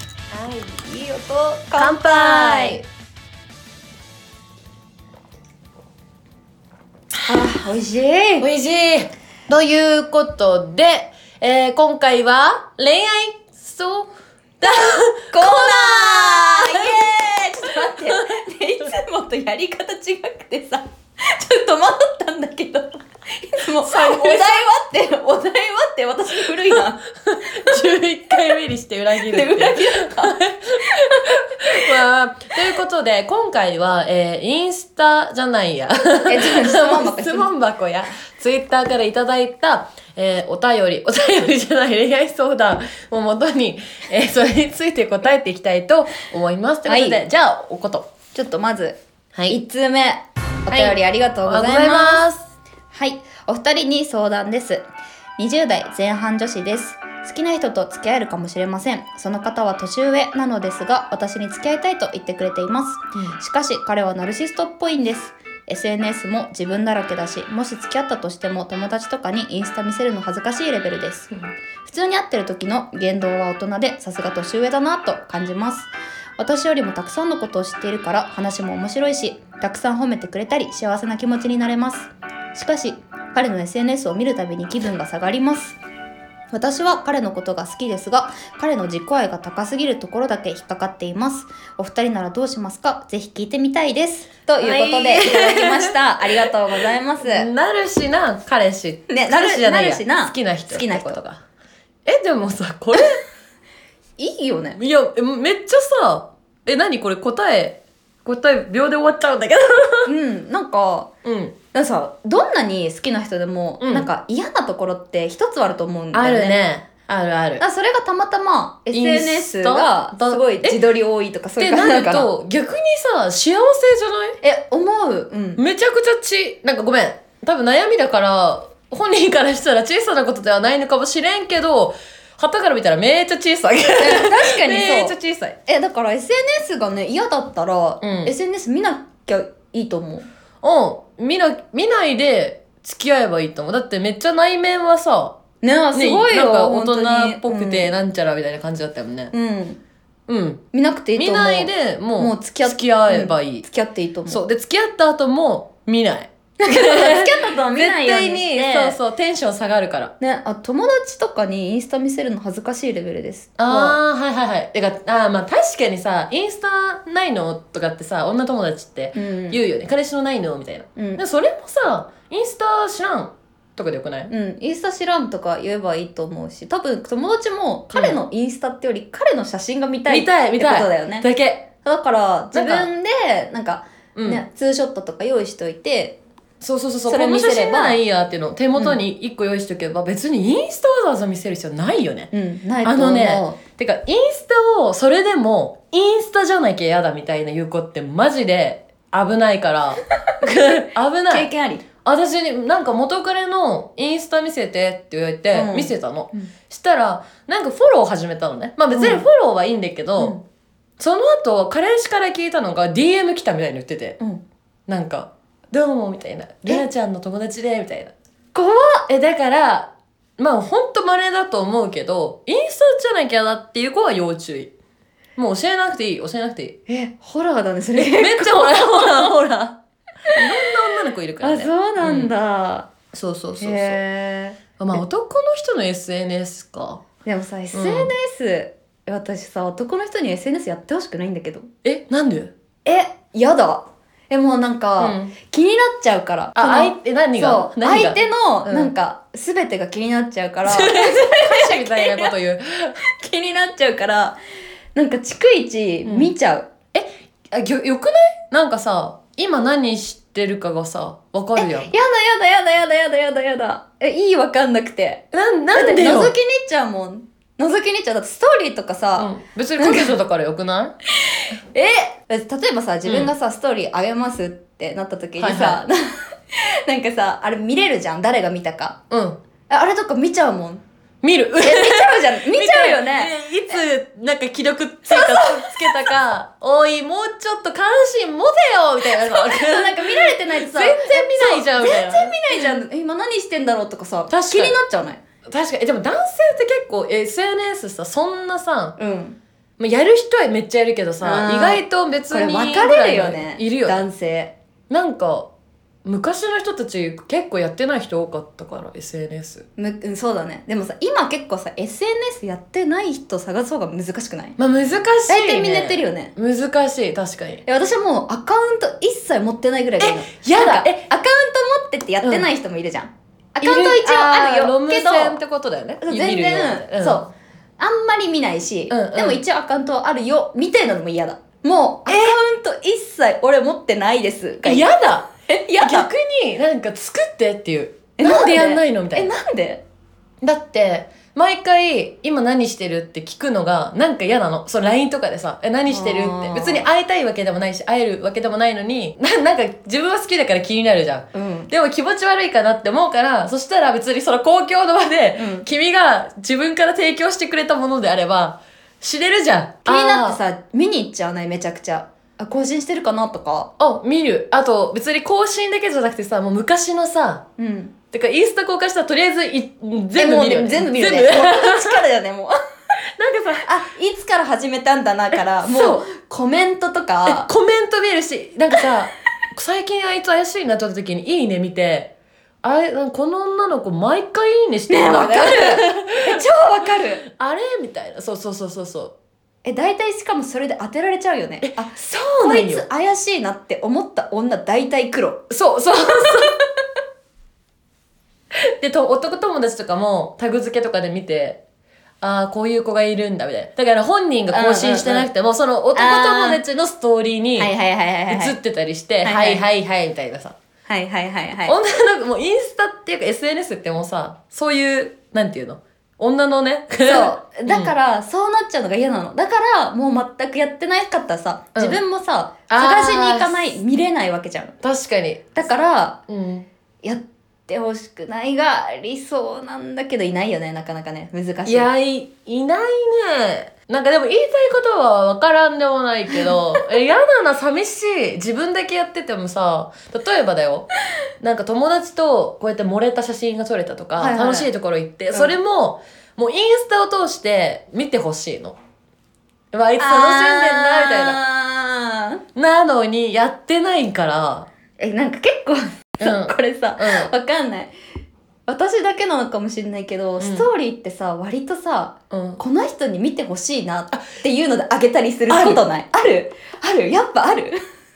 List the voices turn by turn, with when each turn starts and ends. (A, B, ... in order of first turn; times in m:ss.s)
0:00.3-0:02.8 A
0:01.8-0:02.8 B
0:07.2-0:08.5 A
0:08.4-0:14.1 B
0:14.6-0:17.2 B
0:15.3-0:27.0 A
0:17.9-0:18.2 B
0:23.8-0:24.6 B
0:27.2-0:48.1 B
0:29.2-0:31.0 A
0:36.3-0:37.5 A
0:46.9-0:47.2 A
0:48.3-0:52.2 A
0:50.7-0:52.5 B
0:52.9-0:54.8 A
0:55.4-1:11.3 A
1:11.8-1:25.8 A
1:26.5-1:37.5 A
1:34.6-1:36.5 B
1:37.2-1:41.4 B
1:39.1-1:41.2 A
1:42.1-1:43.2 B
1:44.2-1:44.8 A
1:44.8-1:50.1 B
1:50.1-1:51.1 A
1:51.2-1:51.6 B
1:51.7-1:56.6 A
1:53.8-1:54.1 B
1:56.1-1:57.6 B
1:57.6-2:02.3 A
1:58.9-2:00.8 B
2:01.6-2:04.4 B
2:04.4-2:05.6 A
2:05.6-2:15.5 B
2:14.0-2:20.3 A
2:18.0-2:18.3 B
2:20.6-2:25.4 B
2:25.6-2:27.9 A
2:25.9-2:29.3 B
2:29.3-2:29.8 A
2:30.3-2:30.6 B
2:30.7-2:34.4 A
2:31.2-2:33.6 B
2:34.3-2:40.1 B
2:36.6-2:39.0 A
2:40.2-2:44.0 A
2:43.6-2:54.3 B
2:49.2-2:49.6 A
2:51.0-2:51.2 A
2:54.3-3:01.3 A
2:57.9-2:58.2 B
3:00.1-3:01.7 B
3:01.8-3:06.2 A
3:02.5-3:02.9 B
3:04.2-3:04.4 B
3:06.6-3:12.3 B
3:07.1-3:08.0 A
3:08.8-3:09.0 A
3:12.3-3:13.6 A
3:12.8-3:21.5 B
3:21.3-3:21.8 A
3:22.0-3:30.4 B
3:25.5-3:26.5 A
3:28.9-3:29.3 A
3:31.0-3:34.2 B
3:34.9-3:38.1 B
3:38.5-3:39.1 A
3:39.1-3:44.7 B
3:45.4-3:46.8 B
3:46.9-3:49.7 A
3:48.0-3:49.6 B
3:50.3-3:52.3 B
3:51.4-3:52.9 A
3:53.1-3:54.0 B
3:53.6-3:55.0 A
3:54.8-3:57.0 B
3:57.2-4:01.7 A
3:57.7-3:58.1 B
4:01.8-4:02.5 B
4:02.8-4:12.3 A
4:05.0-4:05.3 B
4:06.6-4:08.9 B
4:10.7-4:13.0 B
4:13.0-4:14.4 A
4:15.0-4:16.7 A
4:16.0-4:16.3 B
4:16.9-4:21.9 B
4:21.6-4:30.2 A
4:25.3-4:26.3 B
4:29.2-4:30.9 B
4:31.1-4:39.0 A
4:33.0-4:33.3 B
4:35.4-4:35.8 B
4:39.1-4:39.4 B
4:39.7-4:40.8 A
4:41.2-4:52.7 B
4:41.6-4:43.8 A
4:45.1-4:46.1 A
4:49.1-4:55.2 A
4:54.3-4:54.8 B
4:55.5-4:59.0 B
4:59.0-4:59.4 A
4:59.8-5:04.1 B
5:01.2-5:04.5 A
5:04.9-5:05.5 B
5:06.0-5:09.6 B
5:09.8-5:14.6 A
5:14.6-5:17.6 B
5:15.3-5:16.3 A
5:17.7-5:25.4 A
5:20.0-5:21.1 B
5:22.2-5:22.5 B
5:23.6-5:27.2 B
5:26.0-5:36.1 A
5:28.9-5:29.4 B
5:32.1-5:32.4 B
5:34.6-5:35.3 B
5:35.8-5:39.3 B
5:38.2-5:39.8 A
5:40.4-6:00.4 B
5:45.9-5:46.9 A
5:51.3-5:51.7 A
5:55.4-5:55.7 A
5:59.8-6:03.7 A
6:03.8-6:07.4 B
6:07.6-6:07.9 A
6:08.1-6:12.0 B
6:10.2-6:12.6 A
6:13.2-6:13.7 B
6:13.6-6:17.5 A
6:15.6-6:16.0 B
6:17.2-6:22.1 B
6:22.6-6:26.4 B
6:24.9-6:27.2 A
6:27.2-6:29.1 B
6:29.6-6:35.4 A
6:31.6-6:32.8 B
6:35.5-6:36.6 B
6:38.5-6:41.6 B
6:42.2-6:47.7 B
6:44.5-6:45.3 A
6:45.9-6:46.6 A
6:47.6-6:48.6 A
6:48.3-6:50.6 B
6:49.2-6:49.6 A
6:50.9-6:51.8 A
6:51.6-6:57.9 B
6:57.0-7:04.8 A
7:01.8-7:02.0 B
7:02.7-7:03.8 B
7:04.8-7:05.5 B
7:05.6-7:06.2 A
7:06.3-7:06.7 B
7:07.0-7:11.9 A
7:11.7-7:20.9 B
7:21.4-7:28.8 B
7:24.2-7:24.7 A
7:29.7-7:31.4 B
7:30.0-7:32.4 A
7:32.6-7:34.7 B
7:35.0-7:37.9 A
7:36.2-7:37.3 B
7:38.7-7:47.8 A
7:40.4-7:40.7 B
7:42.3-7:42.6 B
7:45.5-7:45.8 B